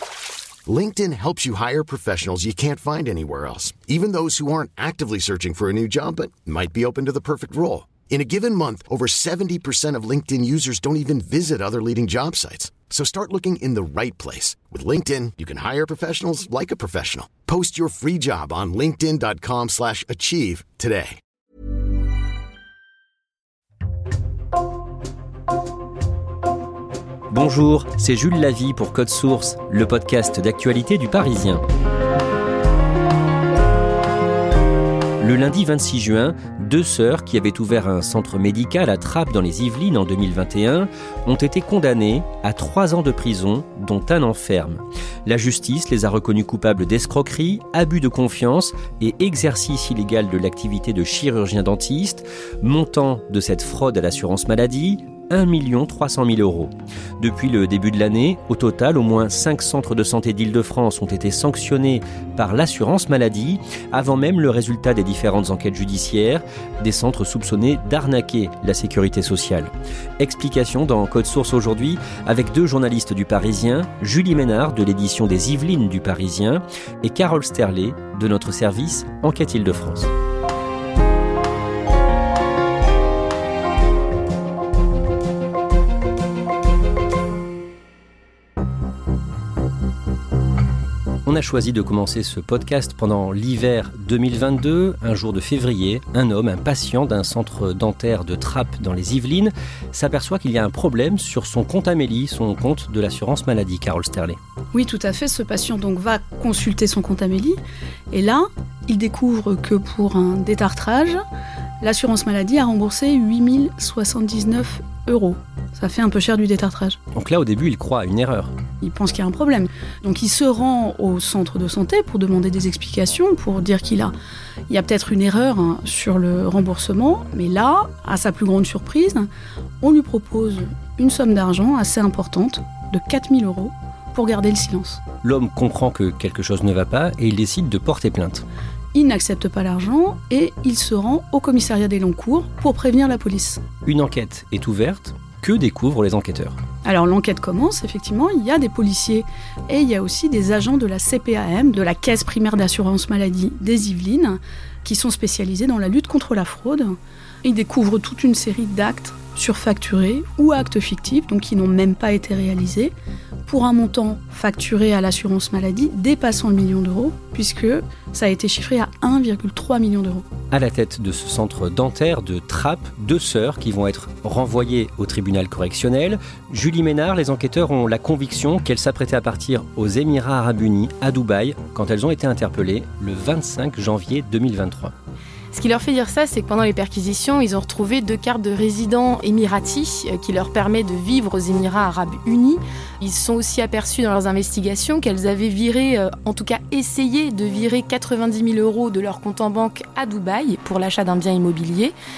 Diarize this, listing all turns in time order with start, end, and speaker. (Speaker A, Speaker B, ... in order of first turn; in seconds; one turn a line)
Speaker A: 0.7-21.2
Speaker B: 27.3-31.6
Speaker B: 35.2-80.1
Speaker B: 91.2-104.4
Speaker C: 104.7-107.6
Speaker C: 108.1-111.2
Speaker C: 111.8-117.0
Speaker B: 117.1-118.5
Speaker C: 118.8-124.1
Speaker C: 124.7-129.3
Speaker C: 129.8-135.0
Speaker B: 135.2-138.4
Speaker C: 138.9-143.6
Speaker B: 143.8-146.6
Speaker C: 146.8-162.9
Speaker C: 163.4-170.2
Speaker B: 170.5-184.9
Speaker D: 185.5-201.9